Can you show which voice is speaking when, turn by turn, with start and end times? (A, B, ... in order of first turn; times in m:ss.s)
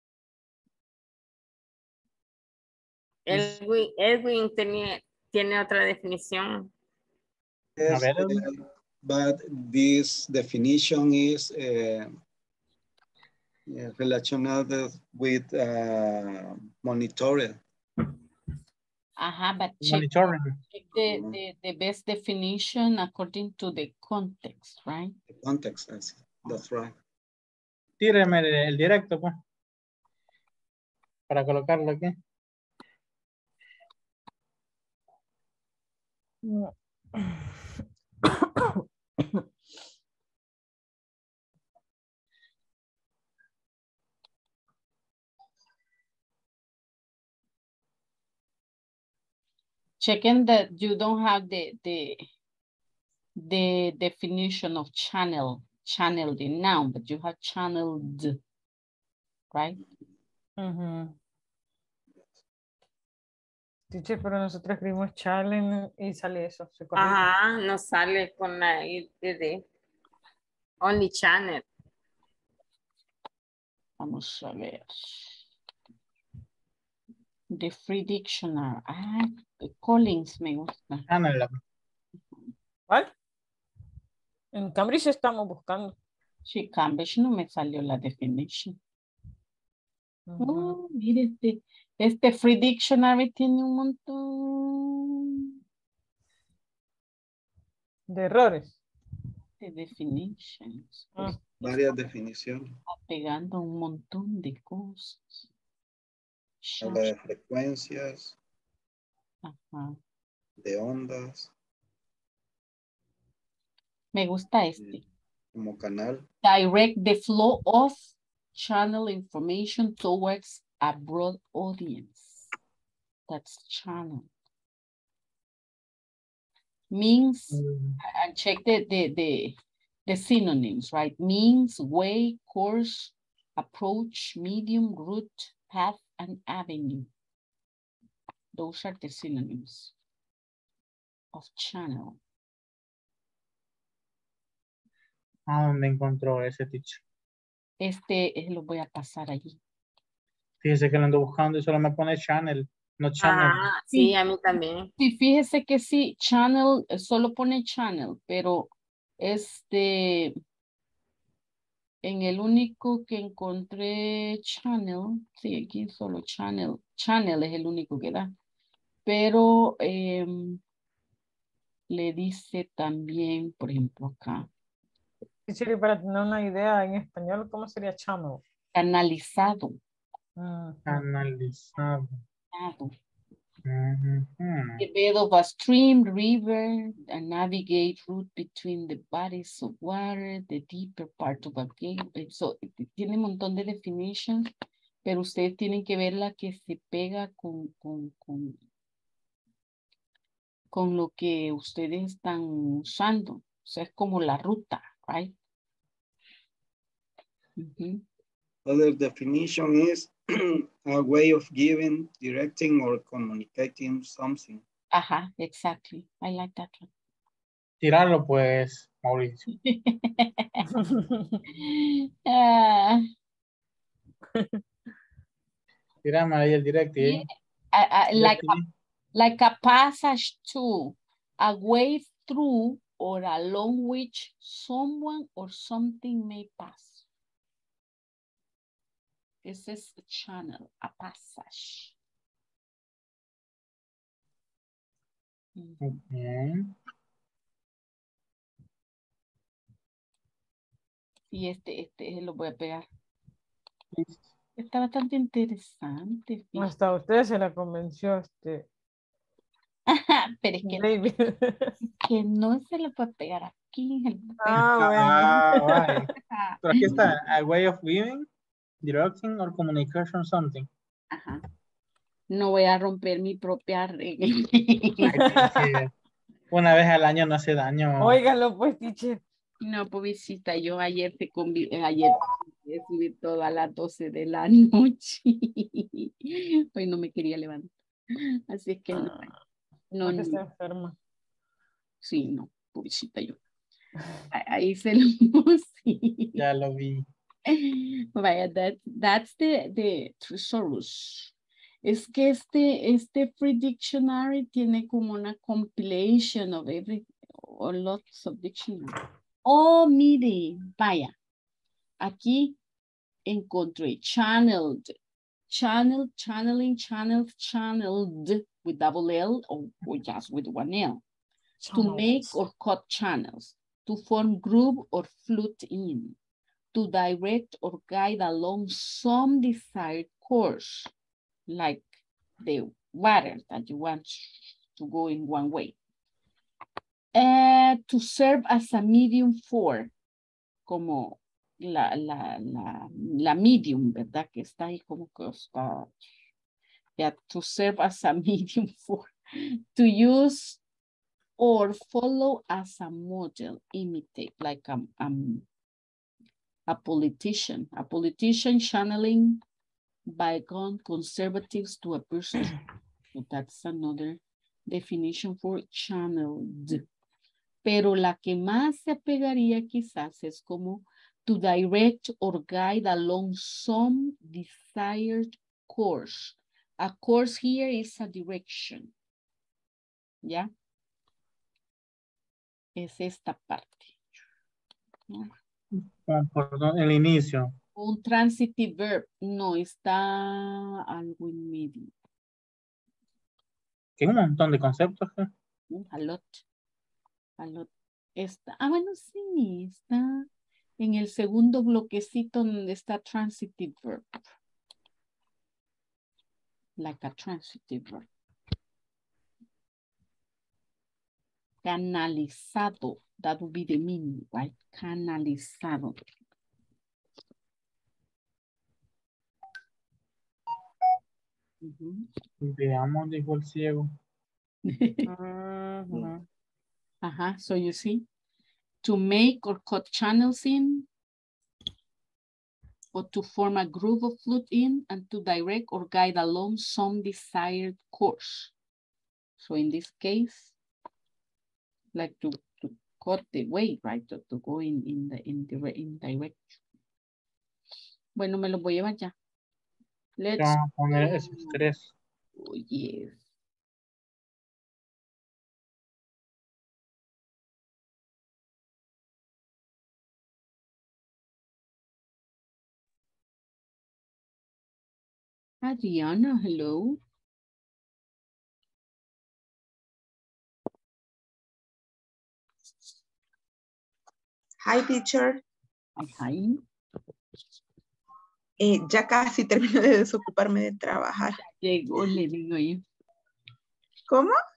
0:03.3-0:06.7 A
0:07.8-0:12.1 B
0:07.9-0:08.5 C
0:13.7-0:17.6 B
0:19.2-0:25.2 D
0:19.8-0:20.6 C
0:21.0-0:21.4 B
0:25.3-0:27.0 B
0:28.0-0:29.4 C
0:31.3-0:32.1 C
0:36.5-0:37.5 E
0:50.0-0:52.2 D
0:53.4-0:58.4 D
0:59.5-0:59.8 D
1:00.6-1:01.1 E
1:03.9-1:07.2 E
1:07.0-1:09.6 A
1:10.8-1:11.6 A
1:14.0-1:15.4 D
1:17.5-1:21.1 D
1:21.1-1:21.6 C
1:24.5-1:25.9 E
1:26.5-1:28.8 D
1:30.3-1:30.7 E
1:30.4-1:35.2 D
1:38.1-1:38.7 E
1:39.6-1:41.4 D
1:41.2-1:41.4 E
1:41.6-1:42.7 B
1:42.9-1:45.5 D
1:46.6-1:47.1 D
1:46.8-1:48.4 B
1:49.4-1:50.0 D
1:50.6-1:51.5 B
1:54.1-1:55.0 D
1:55.5-1:56.2 B
1:56.4-2:02.5 D
2:03.3-2:04.3 D
2:06.9-2:17.1 D
2:07.5-2:08.0 C
2:18.5-2:19.9 D
2:21.3-2:22.2 D
2:25.5-2:27.0 C
2:27.8-2:29.6 D
2:30.6-2:33.6 C
2:33.2-2:34.9 A
2:35.0-2:40.4 D
2:42.0-2:48.3 D
2:49.1-2:50.6 D
2:51.9-2:54.5 D
2:55.5-2:58.4 E
2:58.8-2:59.8 D
3:00.4-3:00.9 E
3:00.9-3:02.2 C
3:02.5-3:02.9 D
3:03.7-3:04.8 C
3:04.8-3:14.5 D
3:15.0-3:18.6 D
3:20.7-3:25.3 D
3:27.6-3:28.0 D
3:28.6-3:34.6 B
3:34.9-3:36.9 D
3:37.8-3:39.5 C
3:39.5-3:40.6 D
3:40.7-3:41.4 E
3:41.5-3:43.0 D
3:44.3-3:44.6 E
3:46.0-3:47.3 C
3:47.0-3:48.6 D
3:48.2-3:48.7 C
3:49.2-3:57.1 D
3:59.4-4:02.0 D
4:05.6-4:06.0 D
4:05.8-4:06.7 C
4:11.3-4:12.9 D
4:13.9-4:14.2 C
4:14.6-4:16.7 D
4:16.6-4:18.7 E
4:19.9-4:20.9 D
4:20.6-4:21.7 E
4:22.0-4:24.6 D
4:24.4-4:26.0 E
4:24.5-4:26.1 C
4:26.3-4:26.9 D
4:26.6-4:28.3 C
4:28.8-4:30.7 C
4:31.1-4:31.4 D
4:32.3-4:35.2 D
4:35.1-4:35.9 C
4:35.2-4:35.7 E
4:36.5-4:38.2 C
4:38.0-4:39.2 E
4:39.6-4:49.3 D
4:48.9-4:49.4 E
4:49.9-4:50.4 D
4:50.0-4:51.0 E
4:52.0-4:53.4 D
4:54.3-4:56.4 D
4:56.4-4:57.0 C
4:57.5-5:01.3 D
5:01.8-5:11.1 D
5:12.0-5:12.6 D
5:13.3-5:14.9 D
5:15.5-5:21.0 D
5:21.6-5:22.1 E
5:21.7-5:26.2 D
5:26.7-5:30.9 D
5:31.5-5:35.8 D
5:37.1-5:39.9 D
5:40.7-5:45.9 D
5:47.0-5:50.6 D
5:51.4-5:55.4 D
5:56.7-5:59.4 D
6:00.1-6:02.6 D
6:03.1-6:06.8 D
6:07.6-6:18.9 D
6:20.2-6:20.5 D
6:22.8-6:24.0 D
6:25.8-6:27.5 C
6:27.8-6:31.9 D
6:34.0-6:35.3 C
6:35.7-6:36.4 D
6:37.4-6:40.3 D
6:40.8-6:44.3 D
6:46.8-6:48.1 D
6:51.6-6:56.0 D
7:01.6-7:02.1 D
7:02.4-7:03.9 C
7:04.7-7:05.0 D
7:05.1-7:06.2 E
7:07.0-7:08.0 D
7:08.8-7:10.9 D
7:12.9-7:18.5 D
7:19.4-7:20.6 D
7:22.0-7:26.6 D
7:28.2-7:29.1 D
7:30.2-7:31.6 D
7:30.4-7:31.9 C
7:32.4-7:33.2 D
7:45.6-7:47.0 D
7:54.6-7:55.4 F
7:56.0-7:56.6 D
7:58.6-8:01.4 F
8:01.4-8:02.8 D
8:04.1-8:04.3 F